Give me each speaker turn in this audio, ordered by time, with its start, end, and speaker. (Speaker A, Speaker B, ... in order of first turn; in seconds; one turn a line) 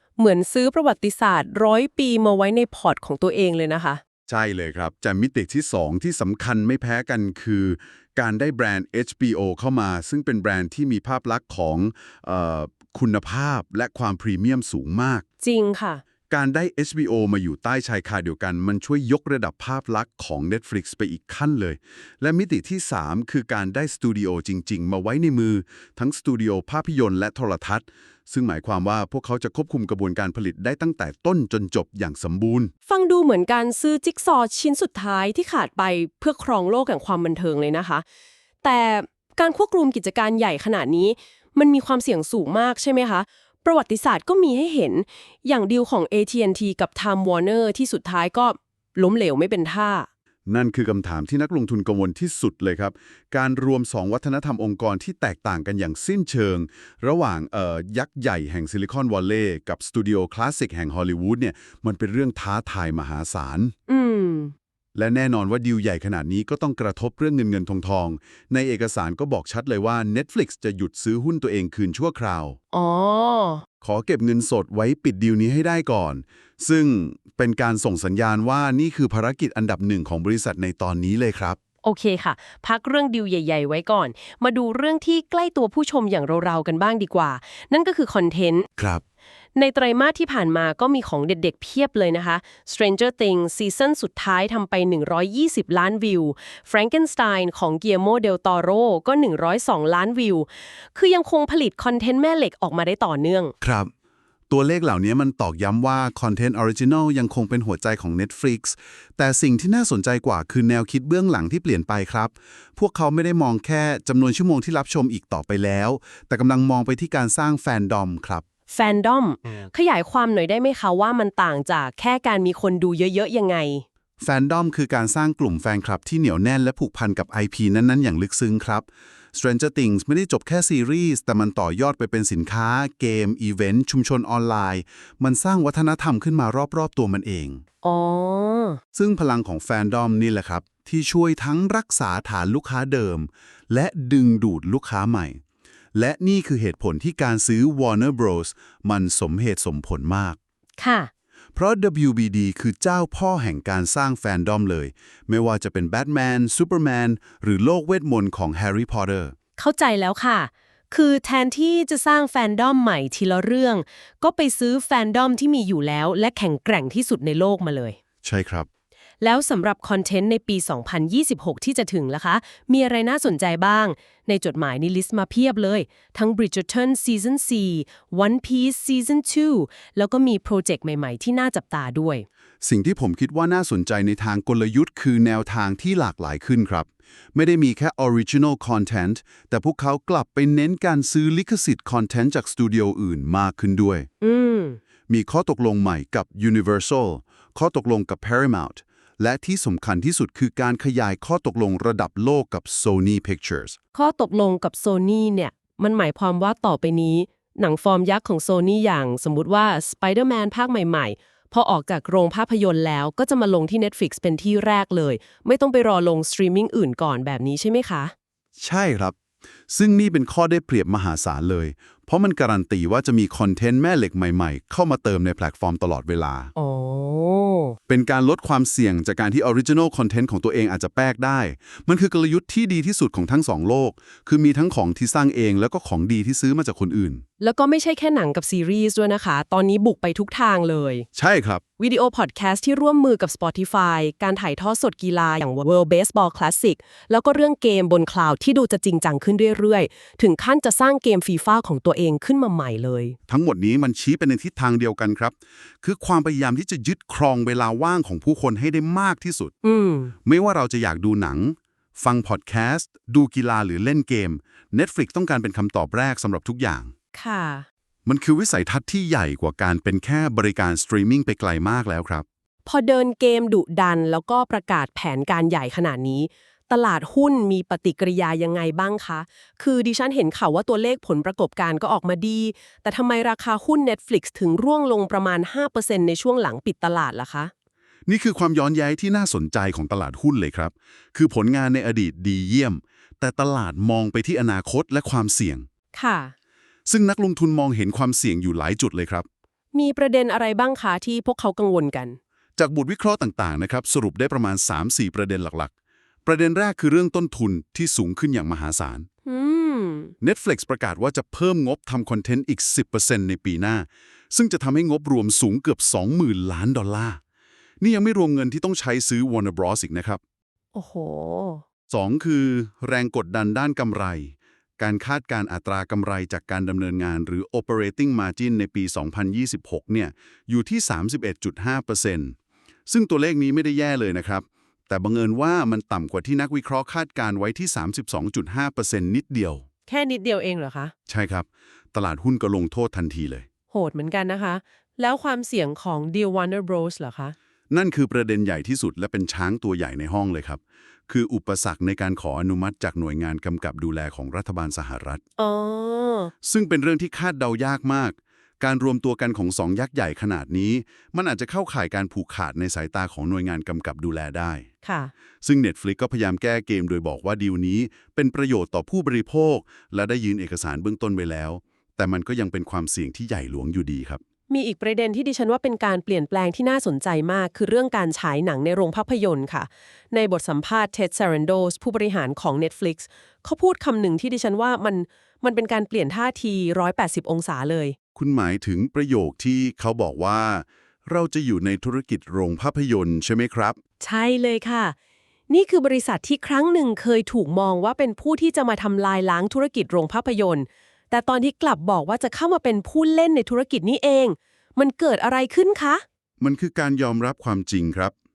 Speaker A: 0.2-4.0
Speaker B: 4.3-15.2
Speaker A: 15.4-16.0
Speaker B: 16.3-32.7
Speaker A: 32.9-38.0
Speaker A: 38.6-50.1
Speaker B: 50.5-63.7
Speaker A: 63.9-64.5
Speaker B: 64.9-72.6
Speaker A: 72.7-73.6
Speaker B: 73.8-81.6
Speaker A: 81.8-88.7
Speaker A: 89.5-103.5
Speaker B: 103.6-103.9
Speaker B: 104.5-118.4
Speaker A: 118.7-123.8
Speaker B: 124.2-137.6
Speaker A: 137.8-138.8
Speaker B: 138.9-145.4
Speaker B: 145.9-150.4
Speaker A: 150.8-151.1
Speaker B: 151.5-159.3
Speaker A: 159.6-168.0
Speaker B: 168.2-168.7
Speaker A: 169.2-182.2
Speaker B: 182.6-194.1
Speaker A: 194.2-194.8
Speaker B: 195.1-203.8
Speaker A: 203.9-218.1
Speaker B: 218.6-219.1
Speaker B: 219.7-226.5
Speaker A: 226.6-227.8
Speaker B: 227.9-237.2
Speaker A: 237.4-241.1
Speaker B: 241.1-241.6
Speaker A: 241.8-253.2
Speaker B: 253.3-259.5
Speaker A: 259.6-260.1
Speaker B: 260.2-266.9
Speaker A: 267.1-267.6
Speaker B: 268.1-272.2
Speaker A: 272.6-287.5
Speaker B: 288.1-295.7
Speaker A: 295.9-296.3
Speaker B: 296.9-299.3
Speaker A: 299.7-302.2
Speaker B: 302.6-305.7
Speaker B: 306.2-309.1
Speaker A: 309.2-310.1
Speaker B: 310.2-317.2
Speaker B: 317.8-320.2
Speaker A: 320.7-321.6
Speaker B: 321.9-332.3
Speaker B: 332.9-339.6
Speaker A: 339.9-340.9
Speaker B: 341.1-343.4
Speaker A: 343.7-347.3
Speaker B: 347.7-355.2
Speaker A: 355.4-356.3
Speaker B: 356.4-364.7
Speaker A: 364.8-365.1
Speaker B: 365.4-374.2
Speaker A: 374.5-387.9
Speaker B: 388.1-393.8
Speaker A: 394.0-394.9
Speaker A: 395.5-406.0
Speaker B: 406.4-408.1